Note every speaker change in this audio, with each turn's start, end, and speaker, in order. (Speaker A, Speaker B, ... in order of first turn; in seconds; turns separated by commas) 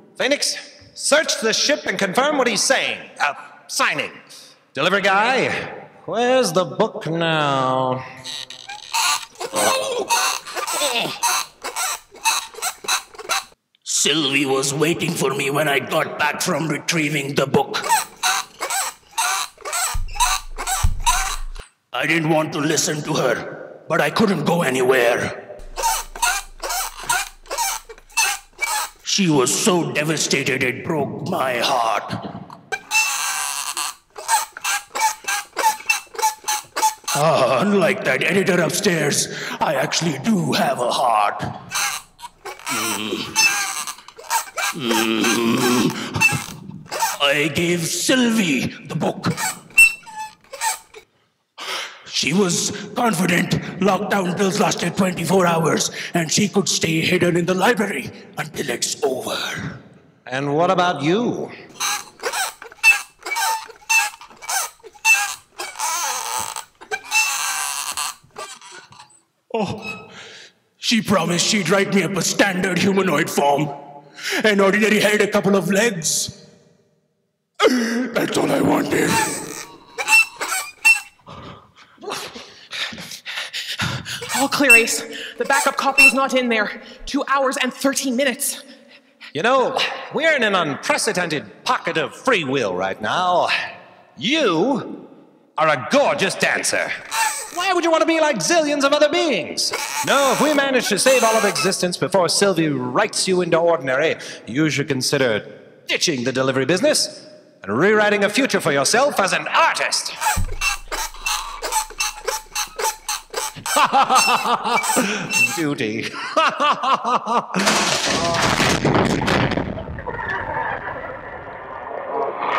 Speaker A: 0.2-4.2, Speaker A: 4.7-8.0, Speaker B: 13.9-17.8, Speaker B: 21.9-25.3, Speaker B: 29.1-32.1, Speaker B: 37.2-41.3, Speaker B: 42.8-43.1, Speaker B: 44.8-45.9, Speaker B: 47.2-49.3, Speaker B: 52.1-59.5, Speaker A: 60.3-61.5, Speaker B: 69.5-70.0, Speaker B: 70.8-73.7, Speaker B: 74.4-76.3, Speaker B: 77.6-79.4, Speaker C: 83.8-88.6, Speaker A: 89.3-93.5, Speaker A: 94.2-96.9, Speaker A: 97.5-110.2, Speaker A: 113.7-117.7